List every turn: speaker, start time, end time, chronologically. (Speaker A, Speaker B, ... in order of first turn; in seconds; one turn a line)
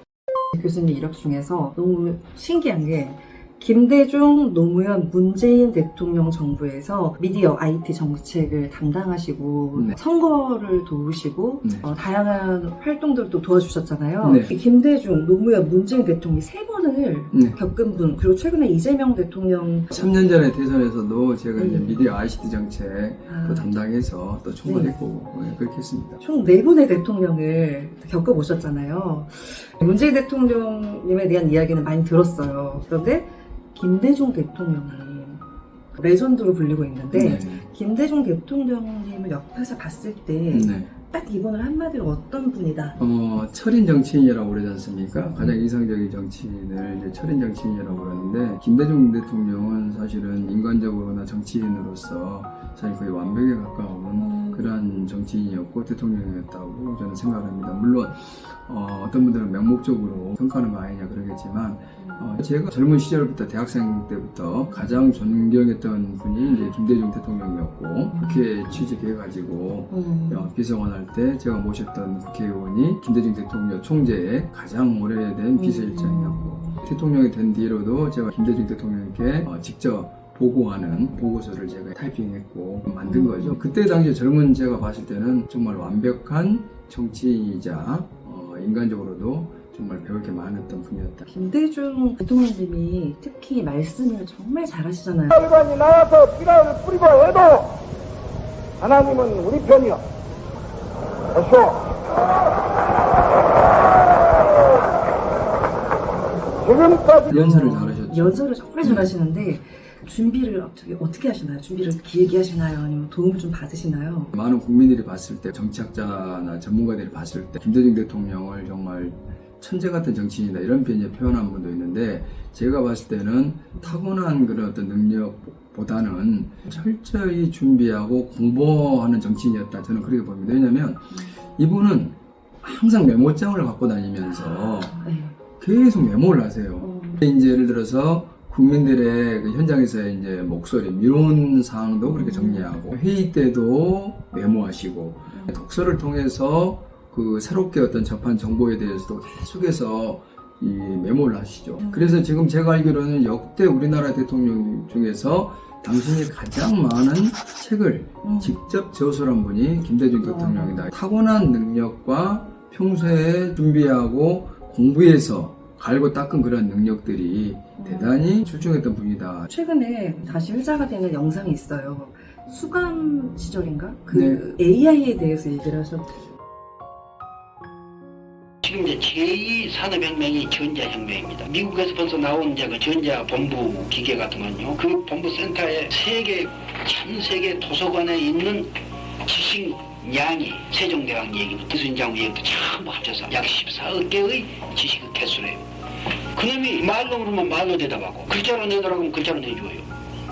Speaker A: 0.5-20.0
Speaker B: 14.2-14.5
Speaker B: 17.3-17.6
Speaker B: 19.9-26.2
Speaker A: 21.6-22.0
Speaker A: 23.3-23.7
Speaker A: 24.6-24.9
Speaker A: 26.2-43.0
Speaker B: 37.1-37.7
Speaker B: 40.5-40.9
Speaker B: 43.0-91.3
Speaker A: 54.2-54.7
Speaker A: 62.0-62.3
Speaker A: 64.7-65.0
Speaker A: 68.1-68.4
Speaker A: 69.9-70.5
Speaker A: 75.5-76.8
Speaker A: 83.0-83.6
Speaker A: 91.3-95.8
Speaker C: 95.8-96.8
Speaker C: 99.0-100.0
Speaker A: 106.0-114.3
Speaker B: 107.3-109.1
Speaker B: 114.3-135.0
Speaker A: 135.0-135.4
Speaker B: 135.6-169.5
Speaker A: 136.8-137.2
Speaker A: 142.1-142.8
Speaker A: 145.3-145.6
Speaker A: 151.8-152.2
Speaker A: 158.2-158.6
Speaker A: 160.2-160.9
Speaker A: 167.8-168.1
Speaker A: 169.5-176.2
Speaker B: 174.1-174.4
Speaker D: 178.6-195.7
Speaker D: 196.3-199.9